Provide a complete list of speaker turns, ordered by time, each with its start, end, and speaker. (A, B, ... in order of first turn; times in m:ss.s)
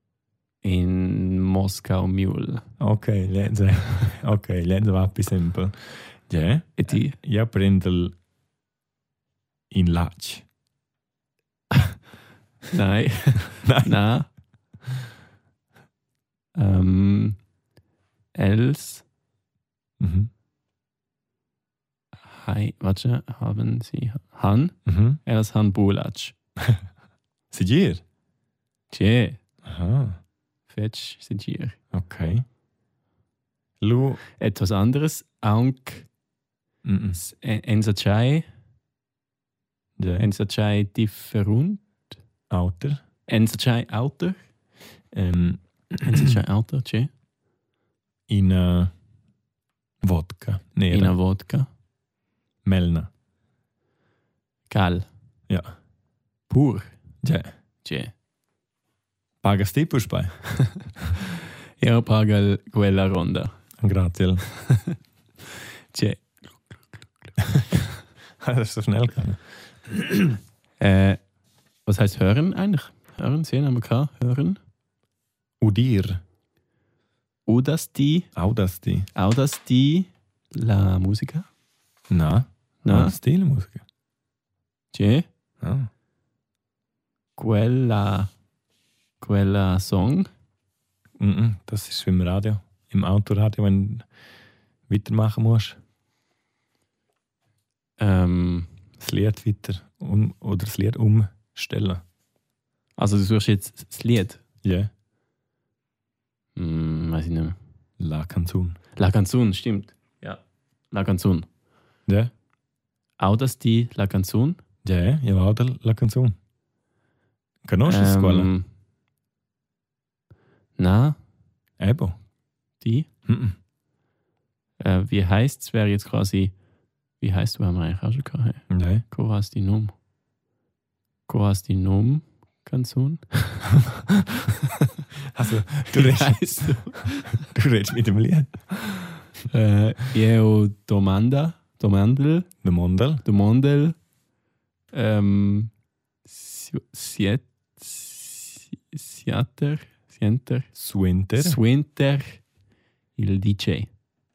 0:00.6-0:02.7 A
0:02.8-0:08.1 B
0:06.8-0:07.2 A
0:09.7-0:10.4 B
0:12.7-0:14.3 A
0:13.6-0:14.0 B
0:16.6-0:17.4 A
0:18.4-0:19.0 A
0:20.0-0:20.3 B
0:22.3-0:26.4 A
0:24.9-0:25.2 B
0:27.5-0:28.0 B
0:28.9-0:29.4 A
0:29.6-0:30.2 B
0:30.7-0:31.8 A
0:31.9-0:32.4 B
0:33.8-0:34.2 B
0:34.4-0:36.1 A
0:36.8-0:37.2 B
0:37.2-0:38.5 A
0:40.0-0:40.3 B
0:40.2-0:41.8 A
0:42.5-0:43.0 B
0:43.3-0:44.4 A
0:45.1-0:46.4 B
0:46.0-0:47.1 A
0:48.3-0:48.9 B
0:50.0-0:51.2 B
0:50.9-0:51.7 A
0:52.6-0:53.1 B
0:54.7-0:55.1 A
0:56.5-0:57.0 A
0:57.2-0:57.5 B
0:57.8-0:58.1 A
0:59.4-1:00.4 B
1:01.8-1:03.5 A
1:03.8-1:04.4 B
1:04.5-1:05.0 A
1:05.9-1:06.3 A
1:07.4-1:07.7 B
1:08.4-1:10.4 B
1:10.8-1:11.2 A
1:11.9-1:14.6 A
1:15.6-1:16.2 B
1:17.5-1:18.3 A
1:18.4-1:19.1 B
1:19.2-1:21.5 A
1:22.1-1:23.8 B
1:22.8-1:23.2 A
1:24.9-1:25.3 A
1:25.6-1:25.9 B
1:27.4-1:28.3 A
1:29.2-1:30.3 A
1:31.2-1:34.1 B
1:34.9-1:35.8 B
1:38.0-1:38.7 A
1:39.0-1:42.0 B
1:43.0-1:44.4 A
1:44.6-1:44.9 B
1:46.6-1:47.6 A
1:48.0-1:48.8 B
1:49.0-1:50.4 A
1:50.9-1:51.5 A
1:52.1-1:52.3 B
1:53.2-1:54.6 A
1:54.8-1:56.4 B
1:57.6-1:58.5 B
1:57.9-1:58.7 A
2:00.8-2:01.2 A
2:01.8-2:02.2 B
2:02.8-2:03.1 A
2:03.3-2:03.6 B
2:04.8-2:06.5 A
2:07.2-2:09.9 A
2:08.7-2:09.0 B
2:11.3-2:13.8 A
2:14.5-2:14.9 A
2:15.3-2:18.8 B
2:15.9-2:17.5 A
2:19.5-2:22.5 A
2:22.6-2:23.2 B
2:23.2-2:24.0 A
2:24.9-2:25.7 A
2:26.3-2:30.7 A
2:30.8-2:31.6 B
2:31.4-2:32.4 A
2:33.2-2:33.9 A